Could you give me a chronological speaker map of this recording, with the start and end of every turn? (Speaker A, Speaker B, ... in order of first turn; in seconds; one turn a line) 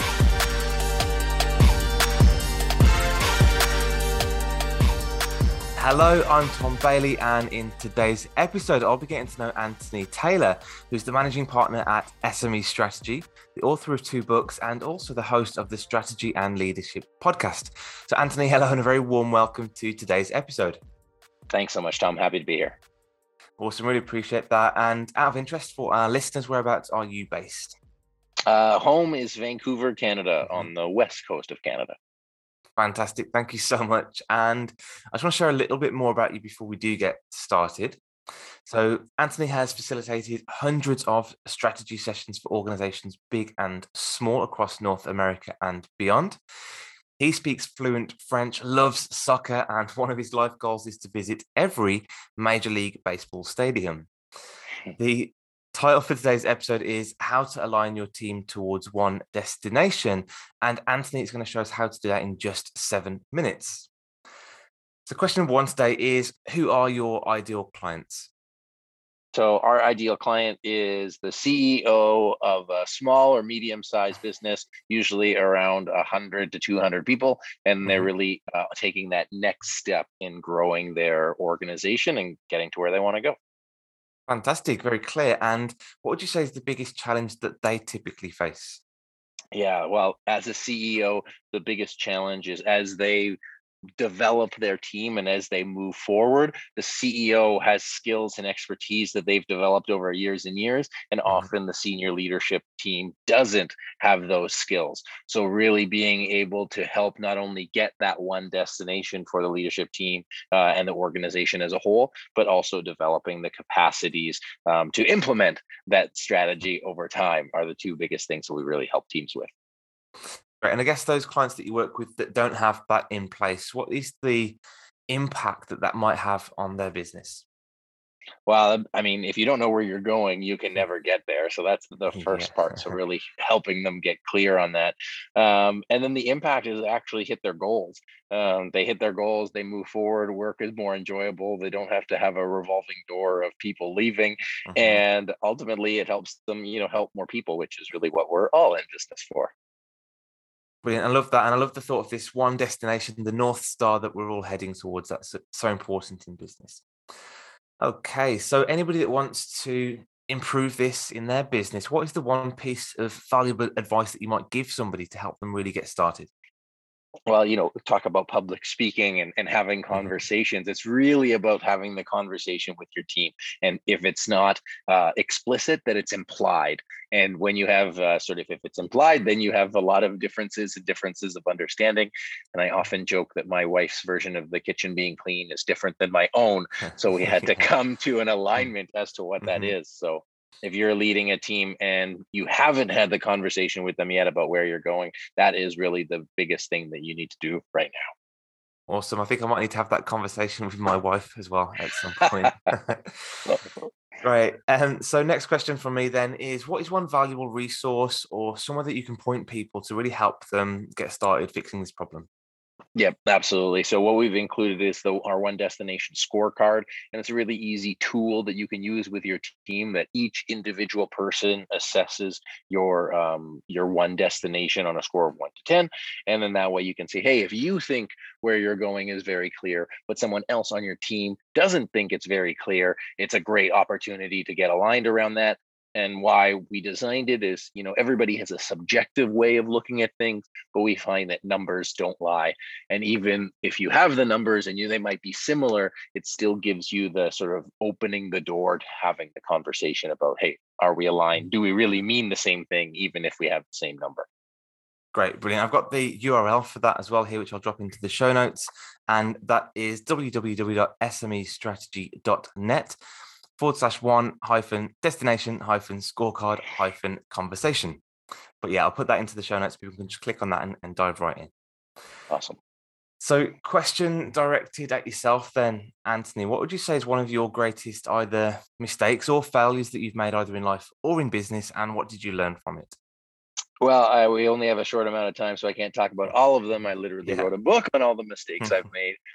Speaker A: 5.8-20.8
Speaker B: 21.5-22.8
Speaker A: 23.6-27.8
Speaker B: 28.5-31.9
Speaker A: 32.8-38.0
Speaker A: 38.6-46.4
Speaker A: 47.2-54.1
Speaker A: 55.0-63.9
Speaker A: 65.1-68.3
Speaker B: 69.3-83.4
Speaker A: 84.3-88.8
Speaker B: 89.5-93.4
Speaker B: 94.0-119.5
Speaker A: 120.6-124.6
Speaker A: 125.1-127.4
Speaker B: 128.5-149.5
Speaker A: 132.1-133.0
Speaker A: 144.7-145.0
Speaker A: 150.8-156.8
Speaker A: 157.8-166.3
Speaker B: 167.3-198.1
Speaker A: 189.4-189.7
Speaker A: 198.9-203.5
Speaker B: 203.5-203.9
Speaker A: 204.2-212.3
Speaker B: 213.0-254.3
Speaker A: 255.1-263.0
Speaker A: 263.6-268.0
Speaker A: 268.6-271.5
Speaker B: 272.3-272.6
Speaker A: 273.2-282.9
Speaker B: 283.8-289.2
Speaker A: 287.2-287.5